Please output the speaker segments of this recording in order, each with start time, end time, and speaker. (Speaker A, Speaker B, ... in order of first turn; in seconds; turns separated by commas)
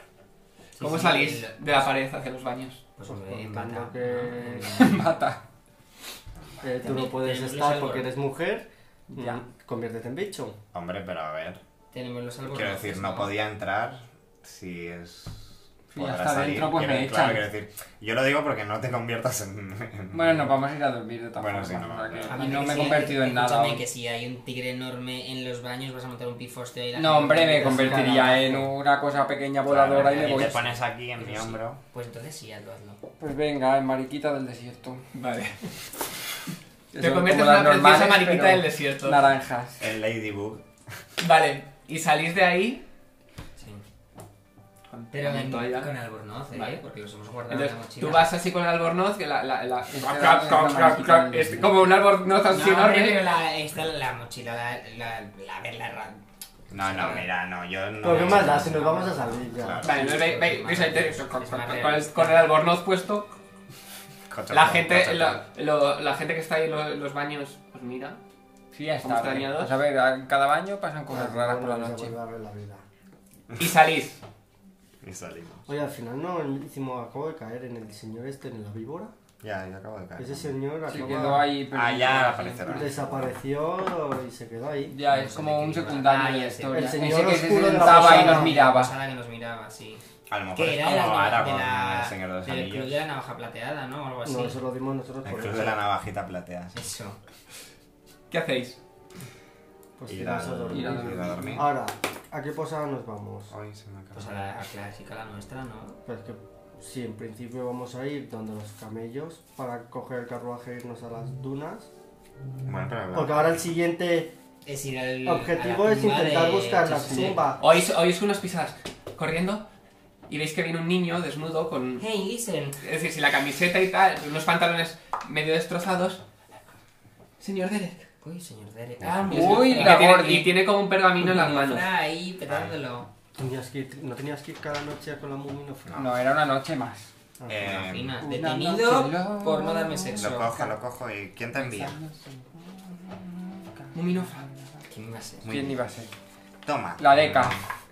Speaker A: 0.7-1.9, Speaker B: 0.8-2.8, Speaker A: 3.0-5.1, Speaker C: 3.0-4.9, Speaker D: 4.8-5.4, Speaker C: 6.6-10.6, Speaker A: 6.8-8.1, Speaker D: 9.1-9.4, Speaker E: 10.7-11.6, Speaker A: 11.9-13.3, Speaker E: 12.5-20.6, Speaker D: 15.9-17.4, Speaker D: 20.1-23.8, Speaker E: 21.3-22.9, Speaker A: 22.3-28.5, Speaker D: 26.9-30.6, Speaker C: 27.5-28.7, Speaker E: 29.6-31.8, Speaker A: 29.9-33.0, Speaker D: 33.2-35.0, Speaker B: 35.1-35.7, Speaker D: 36.9-39.8, Speaker B: 37.0-39.2, Speaker E: 39.8-40.6, Speaker B: 41.2-42.8, Speaker A: 43.6-43.8, Speaker B: 44.9-45.9, Speaker A: 45.1-48.3, Speaker B: 46.5-46.8, Speaker B: 47.5-53.2, Speaker D: 49.9-51.9, Speaker A: 52.5-57.3, Speaker E: 56.7-58.9, Speaker C: 58.0-59.8, Speaker A: 58.1-62.5, Speaker E: 59.5-60.1, Speaker B: 59.8-63.3, Speaker E: 64.3-65.4, Speaker B: 64.5-68.2, Speaker D: 68.7-72.1, Speaker B: 69.0-69.7, Speaker C: 71.1-72.8, Speaker B: 73.5-74.2, Speaker E: 75.0-75.7, Speaker C: 75.7-79.1, Speaker E: 79.4-81.0, Speaker C: 80.2-81.5, Speaker D: 80.9-82.9, Speaker E: 81.7-83.4, Speaker C: 82.7-84.9, Speaker D: 84.9-89.0, Speaker A: 85.0-90.0, Speaker C: 86.7-88.5, Speaker E: 90.3-93.0, Speaker A: 90.5-94.6, Speaker C: 94.2-95.8, Speaker E: 95.2-96.8, Speaker A: 96.7-97.2, Speaker B: 98.3-98.8, Speaker C: 100.0-103.5, Speaker E: 100.1-101.7, Speaker D: 100.7-101.6, Speaker E: 103.5-104.5, Speaker A: 104.1-106.0, Speaker C: 106.0-111.9, Speaker E: 112.7-113.6, Speaker C: 113.1-114.3, Speaker A: 114.7-117.5, Speaker C: 115.2-117.6, Speaker B: 117.6-119.6, Speaker B: 120.3-122.0, Speaker A: 122.0-122.8, Speaker B: 122.8-126.2, Speaker B: 127.4-128.1, Speaker A: 128.2-130.2, Speaker E: 129.0-129.5, Speaker B: 129.3-131.9, Speaker D: 129.3-130.6, Speaker A: 131.4-133.1, Speaker E: 132.5-132.7, Speaker C: 133.3-136.0, Speaker E: 135.9-136.2, Speaker D: 135.9-137.1, Speaker C: 137.4-137.8, Speaker E: 137.5-138.2, Speaker A: 137.6-140.6, Speaker D: 138.2-140.7, Speaker E: 140.2-142.0, Speaker D: 141.5-144.8, Speaker B: 143.9-144.5, Speaker A: 144.9-145.5, Speaker E: 145.4-145.8, Speaker D: 145.4-146.1, Speaker E: 146.6-147.7, Speaker D: 147.0-147.6